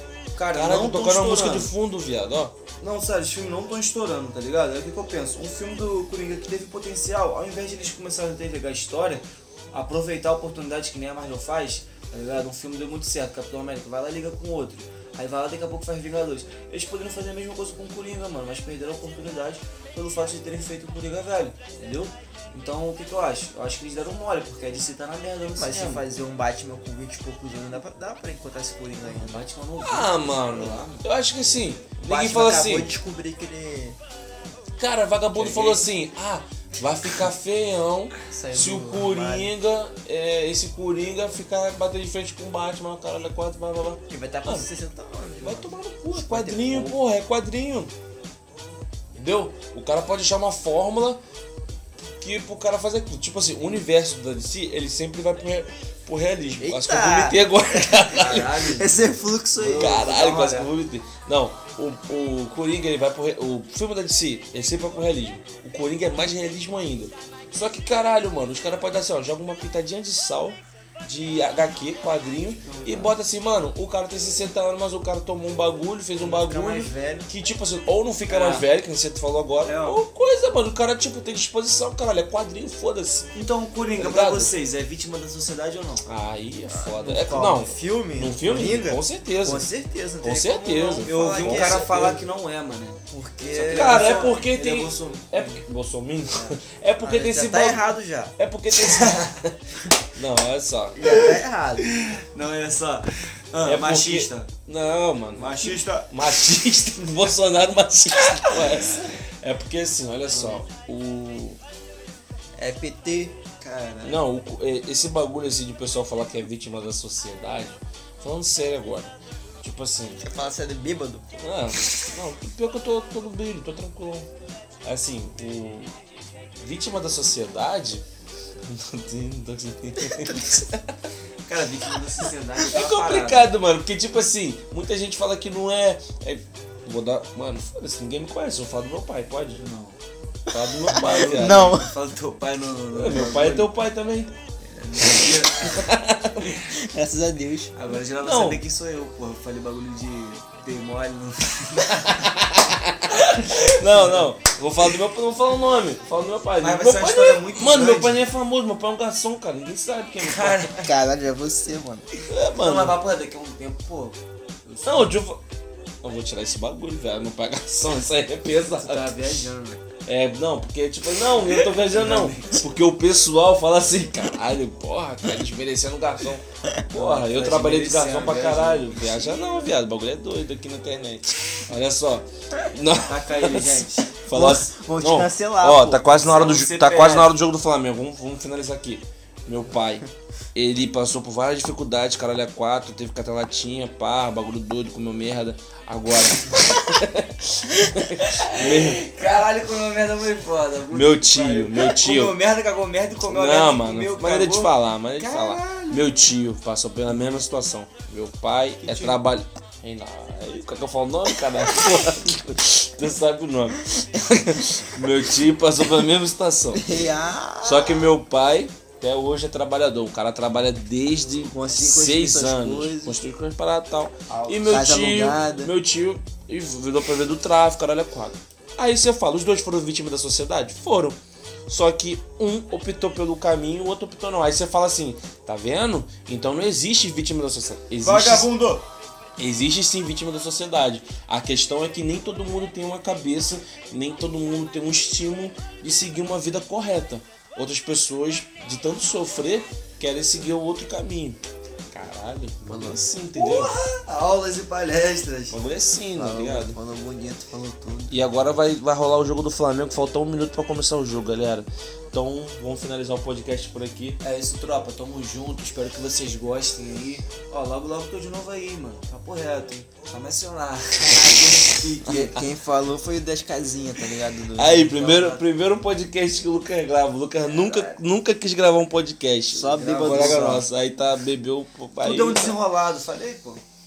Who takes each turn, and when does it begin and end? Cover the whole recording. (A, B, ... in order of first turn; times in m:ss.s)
0:00.3-0:01.7 A
0:00.5-0:02.6 B
0:02.8-0:26.0 A
0:25.6-0:29.4 C
0:29.0-0:31.0 A
0:29.8-0:33.0 B
0:32.0-0:34.0 C
0:34.8-0:44.7 B
0:35.3-0:35.9 A
0:38.3-0:39.5 C
0:44.1-0:47.0 C
0:45.4-0:47.9 B
0:49.1-0:51.2 B
0:52.2-0:58.8 B
0:56.6-0:58.0 C
0:58.1-0:58.9 A
0:58.7-1:00.1 C
0:59.6-1:00.7 A
0:59.8-1:23.3 B
1:12.6-1:13.2 A
1:16.2-1:17.3 C
1:18.3-1:18.7 A
1:19.6-1:20.0 A
1:23.3-1:26.1 A
1:24.0-1:24.5 B
1:26.1-1:29.7 B
1:26.7-1:32.2 C
1:30.2-1:32.1 B
1:31.0-1:33.0 A
1:33.1-1:34.3 C
1:33.5-1:35.6 A
1:33.7-1:39.6 B
1:36.3-1:36.6 A
1:37.0-1:38.3 C
1:38.7-1:39.3 A
1:40.1-1:41.1 B
1:41.0-1:41.9 C
1:41.1-1:44.5 A
1:43.6-1:51.6 B
1:45.4-1:46.1 A
1:50.3-1:50.6 A
1:52.6-1:53.4 C
1:53.6-1:54.2 A
1:54.0-2:00.2 B
2:00.2-2:01.2 C
2:01.3-2:04.3 B
2:04.8-2:06.0 B
2:06.6-2:08.0 B
2:08.7-2:11.0 B
2:11.4-2:13.5 A
2:12.7-2:19.6 B
2:19.6-2:20.0 A
2:20.5-2:21.8 B
2:20.9-2:23.7 A
2:20.9-2:21.9 C
2:22.9-2:24.3 B
2:24.6-2:25.9 A
2:25.7-2:26.5 B
2:26.4-2:27.7 C
2:27.7-2:32.3 A
2:28.1-2:28.6 B
2:32.0-2:40.7 B
2:33.1-2:34.3 A
2:36.6-2:38.3 A
2:40.2-2:40.9 A
2:40.8-2:42.1 C
2:42.3-2:43.0 B
2:42.4-2:45.1 A
2:44.8-2:45.4 B
2:46.0-2:49.2 B
2:48.7-2:49.8 A
2:50.0-3:19.0 B
2:51.3-2:52.6 A
2:56.9-2:59.5 A
3:03.1-3:04.2 A
3:04.3-3:06.6 C
3:06.2-3:07.4 A
3:18.4-3:26.1 A
3:20.9-3:22.4 B
3:23.2-3:36.8 B
3:28.8-3:29.2 A
3:36.7-3:38.1 C
3:37.6-3:58.5 B
3:41.4-3:43.2 C
3:44.3-3:45.7 C
3:58.0-3:58.8 A
3:59.4-4:11.4 B
4:11.9-4:13.8 B
4:12.7-4:13.0 C
4:13.3-4:15.6 A
4:15.5-4:16.8 B
4:16.2-4:18.2 C
4:18.1-4:24.2 B
4:24.2-4:32.4 A
4:31.1-4:34.9 C
4:34.6-4:42.6 B
4:34.9-4:35.4 A
4:37.4-4:38.0 A
4:39.5-4:40.6 C
4:39.7-4:40.6 A
4:42.0-4:43.6 A